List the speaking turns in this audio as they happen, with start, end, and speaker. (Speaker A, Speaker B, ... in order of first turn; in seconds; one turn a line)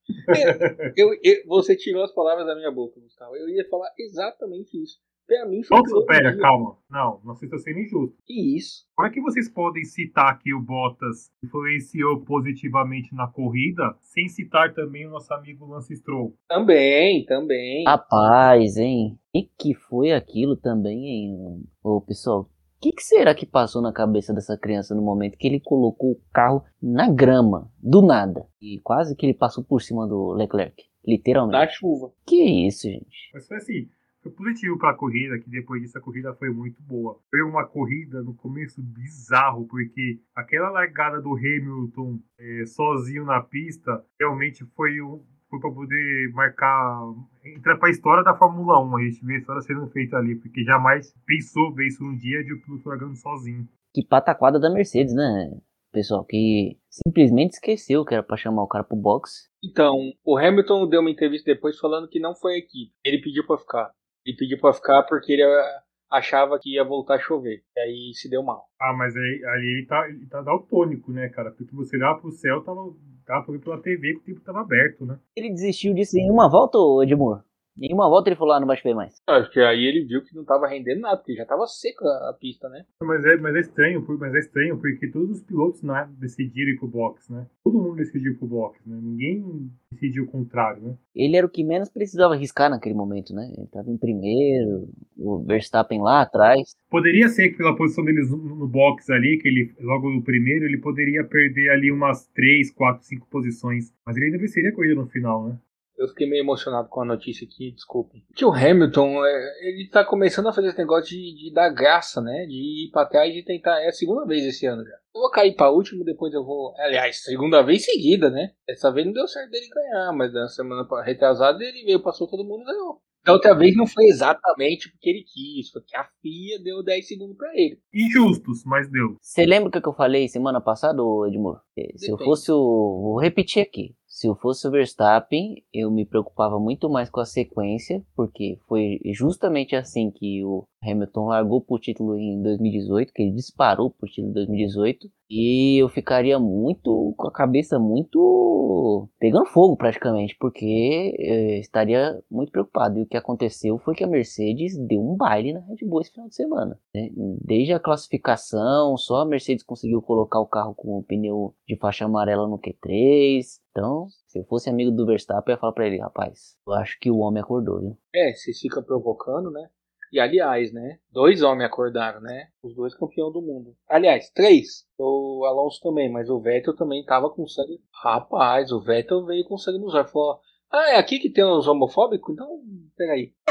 Speaker A: 0.3-6.5
Speaker B: 0.3-0.9
Speaker B: 5.7-8.1
Speaker A: 8.3-8.8
Speaker B: 9.0-16.3
Speaker A: 16.5-17.9
Speaker C: 17.9-31.7
Speaker A: 31.5-32.1
Speaker C: 32.2-33.3
Speaker B: 33.3-53.7
Speaker C: 53.9-59.4
Speaker A: 59.6-68.6
Speaker B: 68.8-75.2
Speaker C: 75.3-79.1
Speaker A: 79.3-82.8
Speaker B: 83.0-91.0
Speaker C: 91.1-96.7
Speaker B: 96.9-105.6
Speaker A: 106.0-127.8
Speaker B: 127.9-129.2
Speaker C: 129.2-168.0
Speaker A: 132.0-132.4
Speaker A: 168.1-183.3